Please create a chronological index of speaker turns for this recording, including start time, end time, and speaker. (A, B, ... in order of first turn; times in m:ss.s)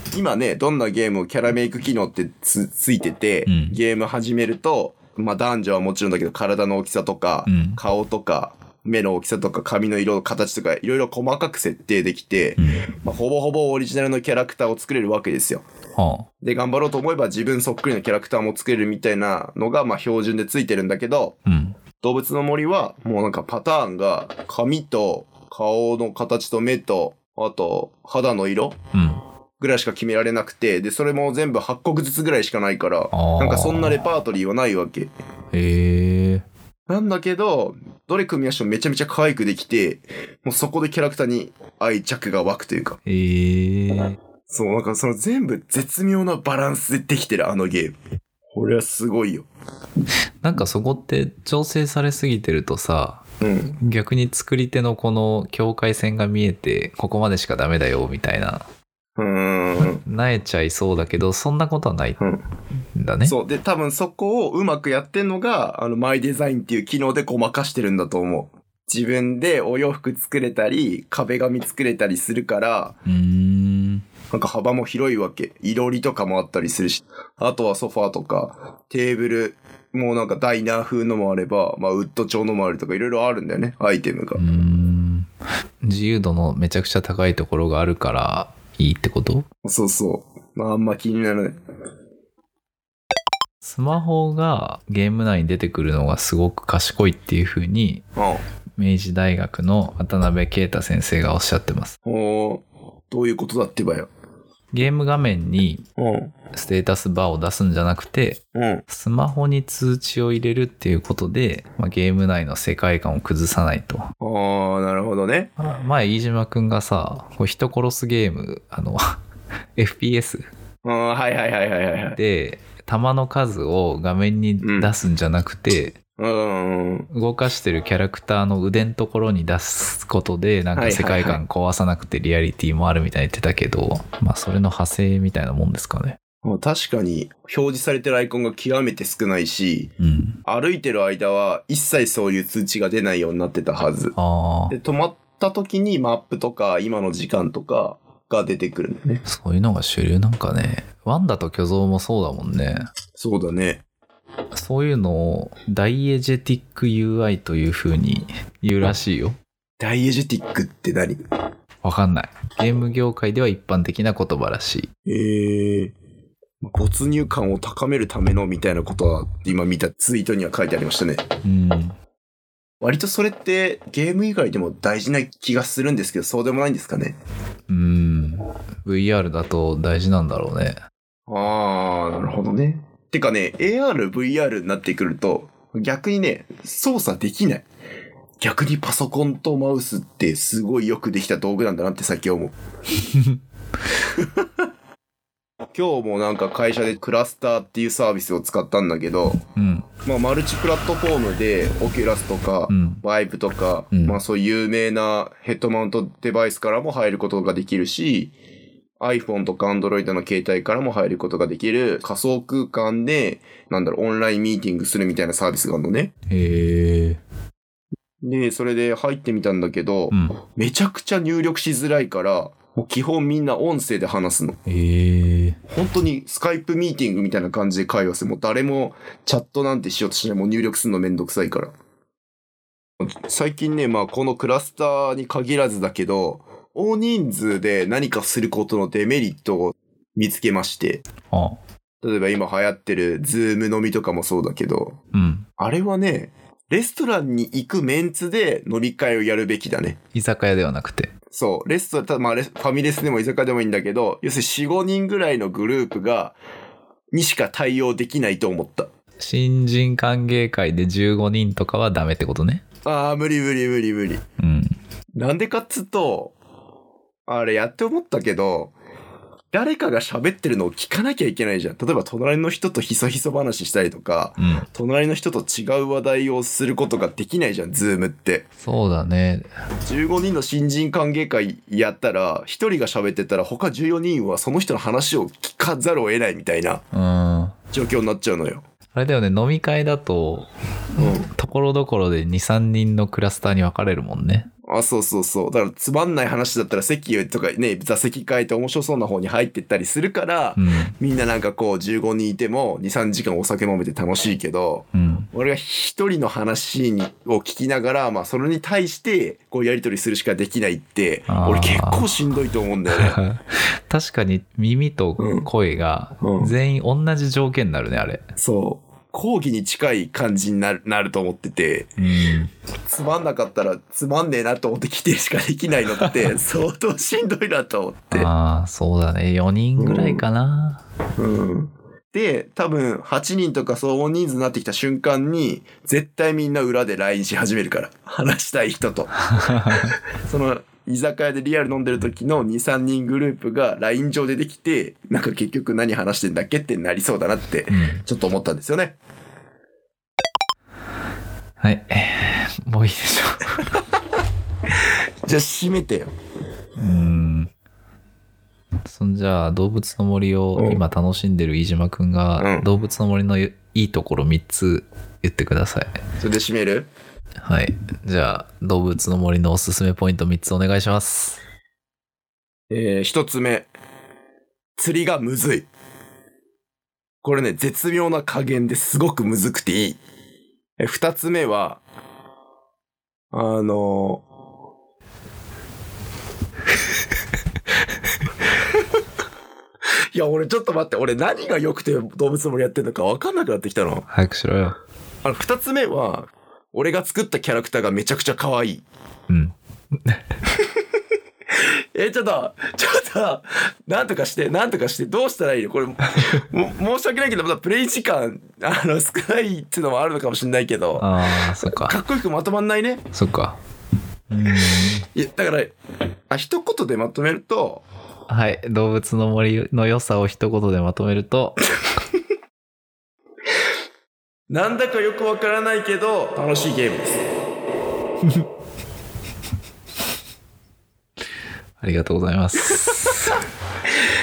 0:00.1-0:15.6 A
0:03.5-0:03.8 B
0:07.5-0:07.8 B
0:12.6-0:12.9 B
0:16.0-0:16.3 B
0:16.4-0:21.4 A
0:21.5-0:21.8 B
0:22.0-0:28.8 A
0:28.9-0:29.2 B
0:29.6-0:35.1 A
0:33.1-0:34.0 B
0:35.5-0:36.5 B
0:36.9-0:43.0 A
0:43.1-0:44.2 B
0:44.5-0:48.0 A
0:48.5-0:49.5 A
0:50.4-0:53.2 B
0:53.4-0:53.8 A
0:53.8-0:58.6 B
0:59.2-1:00.0 A
0:59.8-1:02.2 B
1:02.2-1:02.4 A
1:03.0-1:03.4 B
1:03.2-1:13.0 A
1:13.1-1:14.0 B
1:14.3-1:24.4 A
1:24.4-1:25.3 B
1:25.8-1:29.5 B
1:29.6-1:31.6 A
1:33.6-1:38.1 B
1:38.2-1:38.4 A
1:38.8-1:42.0 B
1:42.0-1:44.1 A
1:44.7-1:45.8 B
1:46.0-1:46.3 A
1:46.5-1:54.1 B
1:48.5-1:48.8 A
1:54.2-1:55.5 A
1:55.6-1:59.2 B
1:59.8-2:00.4 B
2:00.8-2:02.2 A
2:02.2-2:06.0 B
2:04.6-2:04.9 A
2:06.2-2:07.1 A
2:07.1-2:16.2 B
2:10.8-2:11.4 A
2:16.4-2:19.9 A
2:20.0-2:20.4 B
2:20.4-2:24.2 A
2:24.2-2:24.8 B
2:24.7-2:29.2 A
2:29.3-2:32.9 B
2:33.2-2:33.8 A
2:34.5-2:39.4 B
2:39.8-2:41.2 A
2:41.8-2:44.9 B
2:45.1-2:45.9 A
2:46.6-2:51.2 A
2:51.4-2:51.9 B
2:52.8-2:57.2 A
2:57.7-3:00.8 B
3:01.3-3:07.7 A
3:08.4-3:12.5 A
3:13.1-3:13.4 B
3:15.7-3:19.4 A
3:19.5-3:19.9 B
3:20.0-3:28.3 A
3:22.7-3:23.0 B
3:23.9-3:24.2 B
3:29.0-3:36.1 A
3:36.3-3:37.2 B
3:38.2-3:44.6 A
3:40.1-3:40.4 B
3:44.7-3:45.6 B
3:45.7-3:51.7 A
3:53.0-4:01.0 A
4:01.3-4:01.6 B
4:02.0-4:05.0 A
4:05.1-4:05.5 B
4:05.6-4:10.0 A
4:10.1-4:11.1 B
4:11.3-4:16.4 A
4:17.1-4:18.9 A
4:19.2-4:22.6 B
4:22.8-4:24.2 A
4:24.4-4:24.8 B
4:25.2-4:26.4 A
4:27.3-4:28.7 A
4:29.5-4:38.4 A
4:34.4-4:34.6 B
4:38.6-4:39.5 B
4:39.8-4:46.8 A
4:46.9-4:47.6 B
4:47.7-4:48.6 A
4:49.0-4:54.5 B
4:51.0-4:51.3 A
4:54.7-5:13.2 A
5:00.6-5:00.9 B
5:04.9-5:05.3 B
5:11.3-5:12.1 B
5:12.9-5:18.2 B
5:15.2-5:15.5 A
5:16.2-5:16.5 A
5:18.4-5:22.0 A
5:22.0-5:22.5 B
5:22.9-5:28.3 A
5:28.1-5:30.8 B
5:29.8-5:30.2 A
5:31.2-5:49.0 A
5:39.4-5:39.9 B
5:47.7-5:48.0 B
5:51.6-5:53.7 B
5:55.2-5:56.1 A
5:56.8-5:57.5 B
5:58.9-6:05.9 B
6:00.6-6:00.8 A
6:02.4-6:02.7 A
6:06.2-6:06.9 A
6:07.4-6:11.4 B
6:12.7-6:13.7 A
6:14.8-6:15.7 A
6:17.2-6:20.0 A
6:20.8-6:21.8 A
6:23.3-6:24.2 A
6:30.1-6:34.1 A
6:34.1-6:34.8 B
6:35.2-6:38.8 A
6:39.3-6:40.2 B
6:42.0-6:51.1 A
6:51.0-6:52.0 B
6:51.6-6:53.0 A
6:53.1-6:53.6 B
6:54.3-6:55.1 B
6:55.1-6:55.7 A
6:56.3-6:57.8 A
6:58.3-7:01.6 B
7:04.5-7:07.2 A
7:11.8-7:13.3 B